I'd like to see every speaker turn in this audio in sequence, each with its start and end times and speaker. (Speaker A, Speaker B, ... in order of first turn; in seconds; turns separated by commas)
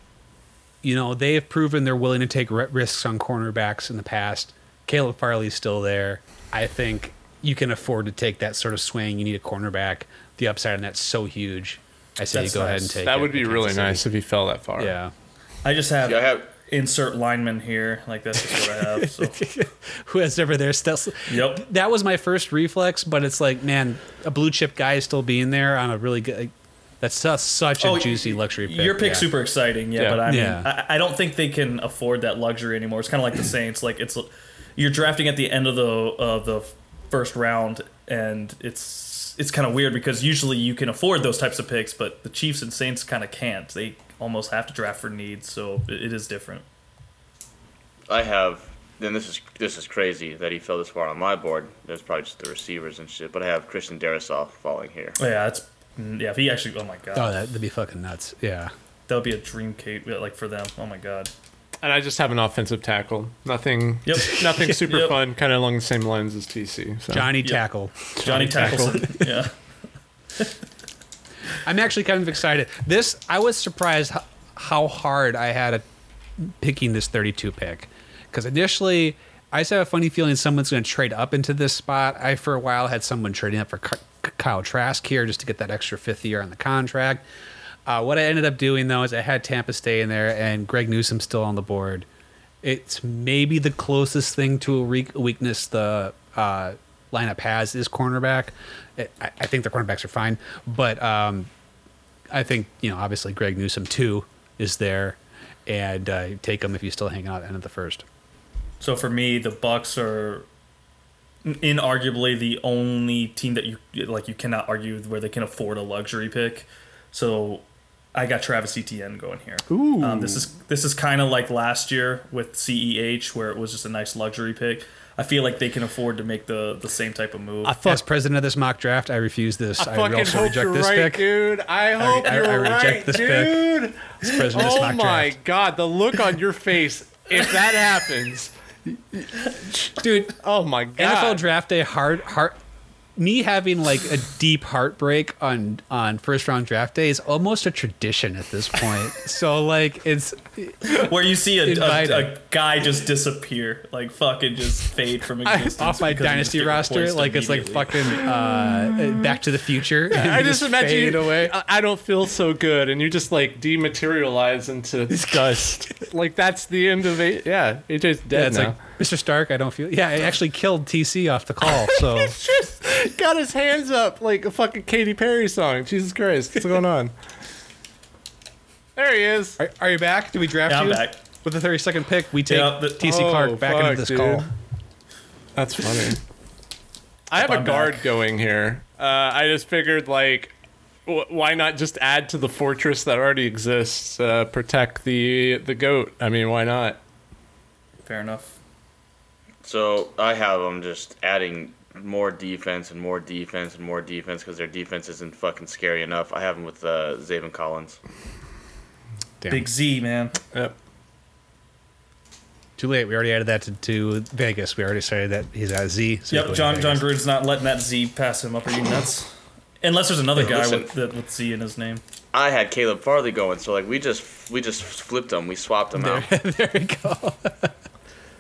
Speaker A: 0.8-14.0, Speaker B: 12.3-13.0, Speaker C: 13.0-14.9, Speaker A: 14.8-15.1, Speaker B: 15.6-19.4, Speaker D: 16.0-16.5, Speaker A: 18.6-29.3, Speaker B: 21.3-21.6, Speaker B: 27.8-46.6, Speaker C: 30.0-30.2, Speaker A: 30.2-30.7, Speaker D: 48.1-55.2, Speaker B: 55.2-57.3, Speaker A: 57.1-58.7, Speaker B: 59.1-61.3, Speaker C: 61.8-67.4, Speaker B: 64.0-65.2, Speaker A: 67.1-69.2, Speaker B: 68.2-69.5, Speaker C: 68.2-69.1, Speaker A: 71.6-75.8, Speaker A: 76.4-87.2, Speaker A: 87.9-92.1, Speaker A: 92.6-101.5, Speaker A: 102.3-108.0, Speaker B: 108.8-110.5, Speaker B: 111.4-127.8, Speaker C: 119.7-120.5, Speaker C: 127.6-128.0, Speaker A: 127.8-131.3, Speaker C: 129.8-138.5, Speaker A: 132.0-135.4, Speaker C: 139.7-141.4, Speaker A: 139.9-140.3, Speaker A: 141.0-142.6, Speaker A: 143.2-151.1, Speaker B: 150.8-158.2, Speaker A: 151.6-152.4, Speaker C: 155.4-155.8, Speaker A: 155.8-161.5, Speaker C: 160.1-168.8, Speaker A: 165.1-165.7, Speaker A: 168.3-172.3, Speaker C: 171.9-177.1, Speaker C: 178.9-179.6, Speaker A: 179.6-184.5, Speaker B: 180.7-181.2, Speaker B: 182.4-183.0, Speaker C: 183.0-184.5, Speaker C: 185.5-186.2, Speaker C: 187.3-190.5, Speaker B: 187.4-188.0, Speaker C: 191.1-197.0, Speaker B: 198.1-198.5, Speaker D: 199.6-208.0, Speaker A: 209.4-209.7, Speaker B: 209.5-210.4, Speaker A: 212.8-217.0, Speaker B: 216.3-222.0, Speaker D: 220.3-220.9, Speaker D: 222.3-226.3, Speaker A: 226.0-227.7